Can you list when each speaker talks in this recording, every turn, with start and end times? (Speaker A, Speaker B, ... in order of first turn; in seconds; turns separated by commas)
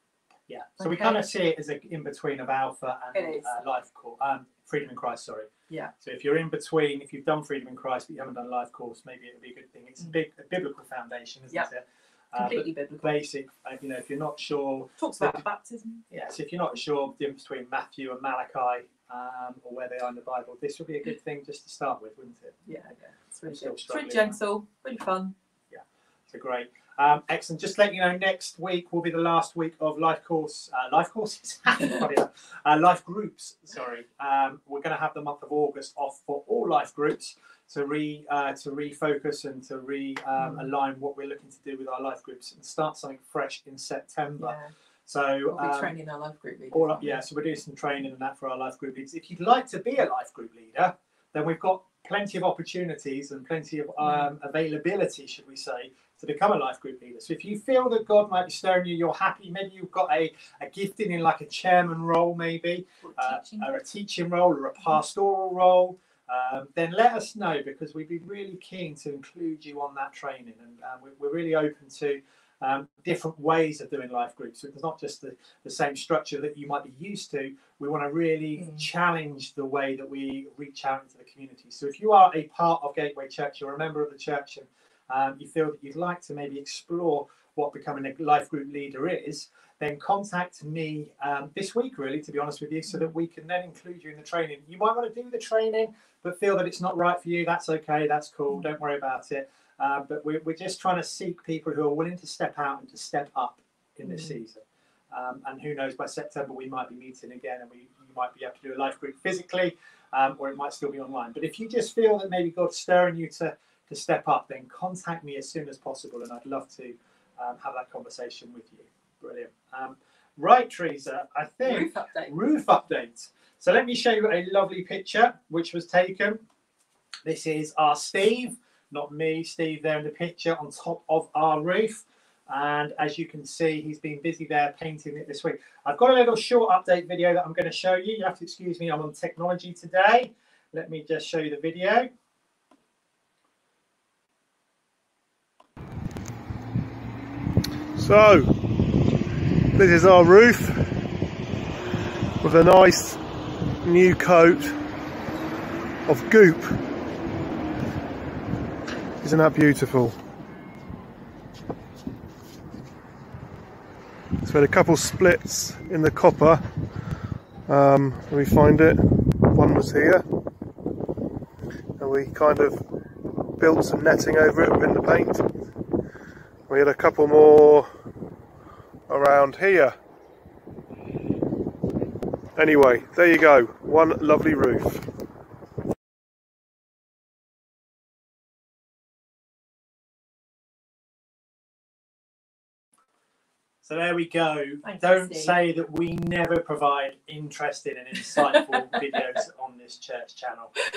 Speaker A: 0.5-5.5, Speaker B: 0.8-1.3, Speaker B: 3.1-3.5, Speaker A: 6.0-15.4, Speaker B: 12.4-13.2, Speaker B: 15.0-16.0, Speaker A: 16.1-22.7, Speaker B: 22.7-25.3, Speaker A: 23.5-24.4, Speaker A: 25.7-45.9, Speaker B: 40.4-40.7, Speaker B: 44.4-44.7, Speaker B: 45.5-47.2, Speaker A: 46.7-126.4, Speaker B: 54.0-54.3, Speaker B: 63.0-63.8, Speaker B: 78.6-78.9, Speaker B: 104.0-104.4, Speaker B: 121.7-122.3, Speaker A: 127.2-142.1, Speaker C: 148.0-148.5, Speaker C: 149.8-150.9, Speaker C: 152.4-153.2, Speaker C: 153.8-154.8, Speaker C: 156.1-156.8, Speaker C: 159.2-160.2, Speaker C: 164.4-166.6, Speaker C: 167.7-170.2, Speaker C: 172.0-172.8, Speaker C: 173.6-175.5, Speaker C: 176.7-177.9, Speaker C: 179.1-180.0, Speaker C: 182.6-185.1, Speaker A: 193.8-200.8, Speaker B: 194.8-195.6